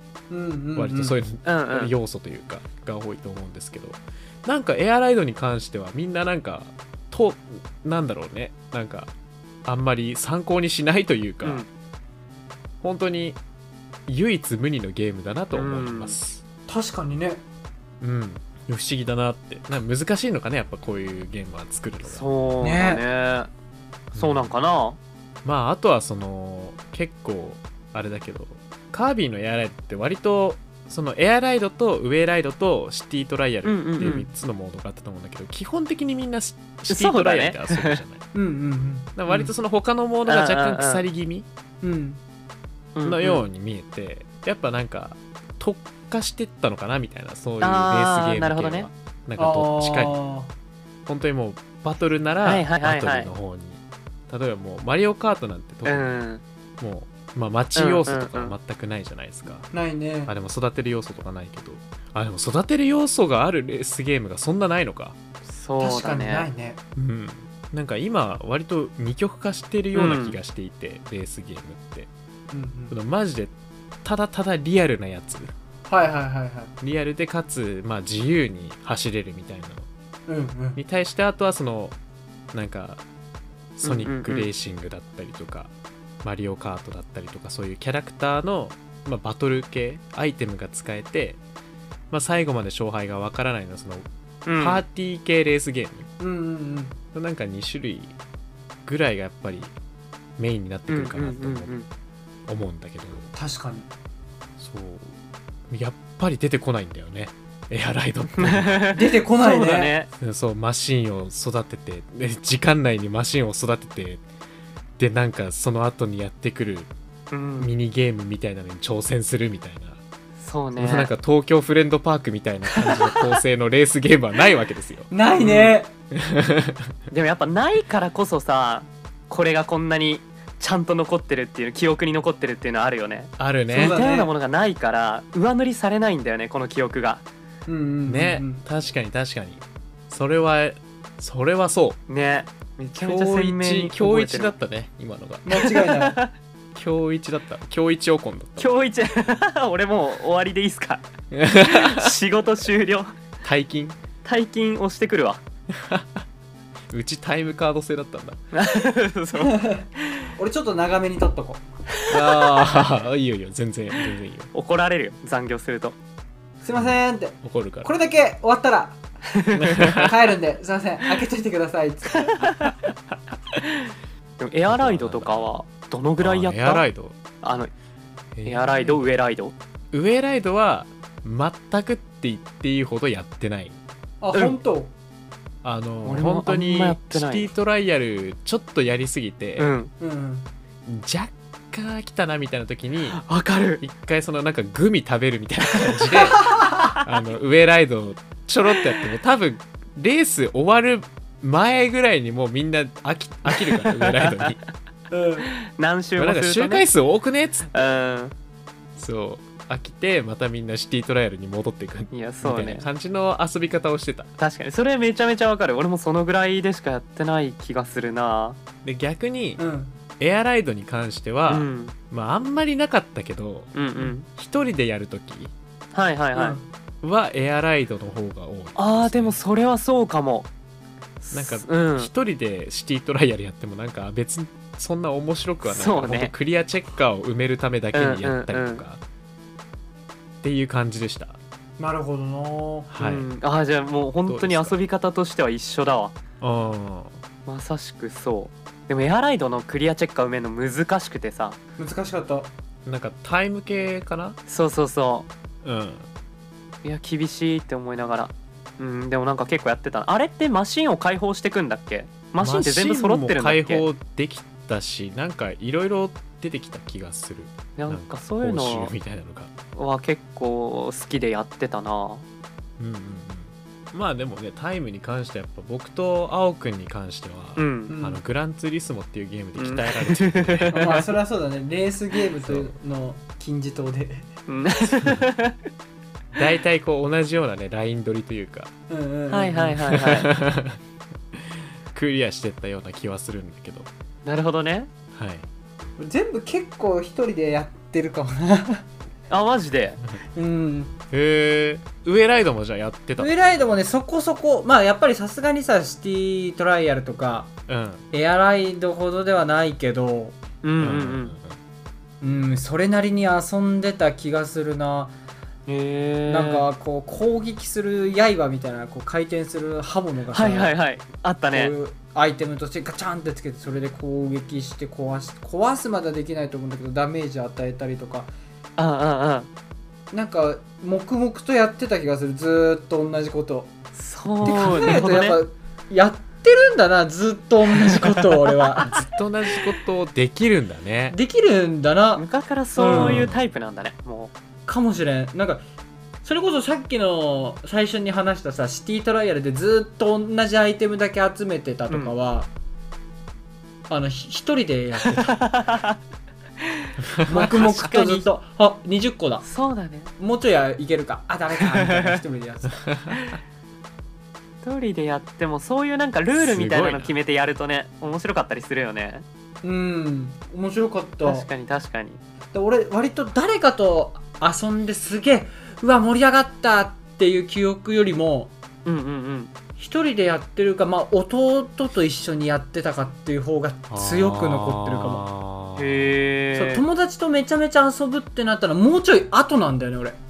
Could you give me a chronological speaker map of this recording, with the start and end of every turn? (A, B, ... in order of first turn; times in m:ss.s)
0:00.3-0:01.2 A
0:00.8-0:09.1 B
0:01.4-0:01.9 C
0:09.7-0:11.7 B
0:11.4-0:11.7 C
0:12.8-0:13.4 B
0:14.1-0:16.4 B
0:15.5-0:16.2 C
0:16.7-0:17.4 A
0:18.0-0:22.6 B
0:22.0-0:23.5 C
0:22.6-0:23.0 A
0:24.1-0:24.5 B
0:24.2-0:25.0 C
0:25.4-0:38.2 B
0:33.6-0:34.3 C
0:36.9-0:38.0 C
0:38.3-0:39.4 A
0:39.2-0:41.5 B
0:40.3-0:41.0 C
0:41.8-0:42.2 A
0:43.0-0:43.4 C
0:43.0-0:50.2 B
0:47.6-0:48.9 C
0:49.4-0:50.5 A
0:51.1-0:56.2 B
0:52.4-0:53.3 C
0:55.9-0:56.4 C
0:56.8-0:59.7 B
0:57.8-0:58.5 C
0:59.7-1:00.3 A
1:00.3-1:05.2 B
1:05.5-1:06.5 C
1:05.8-1:06.8 A
1:07.0-1:12.1 B
1:09.9-1:10.4 C
1:12.5-1:13.0 A
1:12.9-1:13.5 B
1:14.0-1:15.5 B
1:15.9-1:16.7 A
1:16.8-1:19.9 B
1:20.3-1:20.8 A
1:20.8-1:22.0 B
1:22.5-1:23.0 B
1:23.8-1:25.7 B
1:23.8-1:24.5 C
1:26.2-1:31.4 B
1:32.1-1:36.1 B
1:34.5-1:34.8 C
1:36.2-1:37.0 A
1:37.1-1:38.1 B
1:38.9-1:39.7 B
1:40.4-1:41.8 B
1:40.9-1:41.9 C
1:42.5-1:43.3 B
1:43.3-1:43.9 A
1:44.6-1:45.1 B
1:45.7-1:48.9 B
1:48.4-1:50.1 C
1:48.9-1:50.0 A
1:50.2-1:54.2 B
1:55.0-1:56.9 B
1:57.3-1:57.7 C
1:57.6-2:00.0 B
2:00.4-2:01.1 C
2:00.8-2:05.1 B
2:05.1-2:05.9 A
2:05.4-2:05.8 C
2:06.1-2:06.9 B
2:07.1-2:17.2 C
2:13.4-2:14.0 B
2:13.7-2:14.3 A
2:17.7-2:18.6 A
2:18.1-2:22.0 B
2:22.1-2:24.6 C
2:23.0-2:25.5 B
2:25.4-2:26.2 A
2:25.6-2:26.3 C
2:26.8-2:28.8 B
2:28.6-2:31.0 C
2:31.3-2:32.1 B
2:31.7-2:33.1 C
2:33.4-2:34.0 B
2:34.2-2:35.4 C
2:35.8-2:36.2 B
2:36.9-2:38.4 B
2:38.5-2:39.7 C
2:39.3-2:41.6 A
2:42.1-2:44.5 B
2:42.2-2:42.9 C
2:44.5-2:46.0 C
2:46.6-2:49.0 A
2:46.7-2:47.9 B
2:49.3-2:50.0 C
2:49.5-2:50.1 B
2:50.0-2:52.4 A
2:52.2-2:52.8 C
2:54.4-2:56.8 C
2:54.7-2:55.5 B
2:56.2-2:57.2 B
2:57.4-2:57.7 C
2:58.4-2:59.0 B
2:58.5-2:59.5 C
2:59.9-3:03.8 B
3:04.2-3:04.9 A
3:05.6-3:09.8 B
3:06.0-3:07.5 C
3:09.6-3:09.9 C
3:10.0-3:10.5 A
3:10.9-3:13.2 B
3:13.1-3:13.8 C
3:13.8-3:24.6 B
3:23.7-3:24.5 C
3:25.1-3:25.5 A
3:25.5-3:26.9 C
3:26.2-3:27.9 B
3:27.7-3:28.4 C
3:29.0-3:34.3 B
3:32.1-3:32.9 C
3:34.4-3:38.6 C
3:38.8-3:39.6 B
3:39.6-3:40.0 A
3:40.2-3:43.8 B
3:41.5-3:42.0 C
3:43.8-3:44.3 C
3:44.3-3:45.5 B
3:45.9-3:46.6 C
3:46.3-3:46.6 A
3:47.0-3:49.4 B
3:48.8-3:50.5 C
3:51.2-3:52.1 C
3:51.3-3:59.0 B
3:55.6-3:56.3 C
3:57.9-3:58.8 C
4:00.4-4:01.4 B
4:01.8-4:02.9 A
4:02.9-4:03.3 B
4:03.0-4:06.2 C
4:04.3-4:04.8 B
4:06.4-4:07.2 B
4:07.5-4:11.6 C
4:11.8-4:12.5 A
4:12.8-4:14.4 B
4:14.5-4:15.3 C
4:15.6-4:16.1 B
4:16.8-4:23.8 C
4:22.4-4:29.5 B
4:27.8-4:28.9 C
4:29.8-4:32.2 C
4:32.8-4:40.8 B
4:37.6-4:38.0 C
4:37.9-4:38.2 A
4:39.6-4:41.1 C
4:40.7-4:44.3 A
4:42.4-4:42.7 B
4:44.5-4:45.6 C
4:46.4-4:48.7 B
4:48.9-4:49.8 A
4:49.3-4:50.3 C
4:49.9-4:50.8 B
4:51.9-4:53.9 B
4:54.2-4:54.9 C
4:55.1-4:55.5 B
4:56.0-4:58.9 A
4:59.3-5:00.0 C
5:00.3-5:01.0 A
5:01.1-5:03.3 B
5:03.2-5:07.5 A
5:07.7-5:08.0 B
5:08.1-5:10.4 A
5:10.6-5:11.3 C
5:10.8-5:11.6 B
5:12.2-5:15.2 A
5:15.7-5:16.7 C
5:16.3-5:20.8 A
5:20.3-5:21.7 C
5:21.5-5:28.3 A
5:28.8-5:29.5 C
5:30.1-5:33.7 A
5:34.0-5:35.4 C
5:34.4-5:35.0 B
5:34.4-5:39.0 A
5:37.8-5:38.8 C
5:38.8-5:41.2 B
5:41.1-5:42.2 A
5:42.2-5:44.3 C
5:42.8-5:43.3 A
5:42.9-5:43.4 B
5:44.7-5:45.6 A
5:46.2-5:52.5 A
5:53.9-5:55.5 A
5:55.1-5:56.0 C
5:56.8-5:58.3 C
5:57.3-5:59.4 A
5:59.4-6:00.1 C
6:00.2-6:02.8 A
6:01.6-6:02.2 C
6:02.8-6:03.2 B
6:04.6-6:09.2 C
6:06.4-6:07.2 B
6:09.6-6:11.5 A
6:11.2-6:12.2 C
6:12.5-6:18.6 A
6:18.8-6:19.5 C
6:19.8-6:25.2 A
6:23.9-6:26.2 B
6:25.8-6:26.8 C
6:26.6-6:30.2 A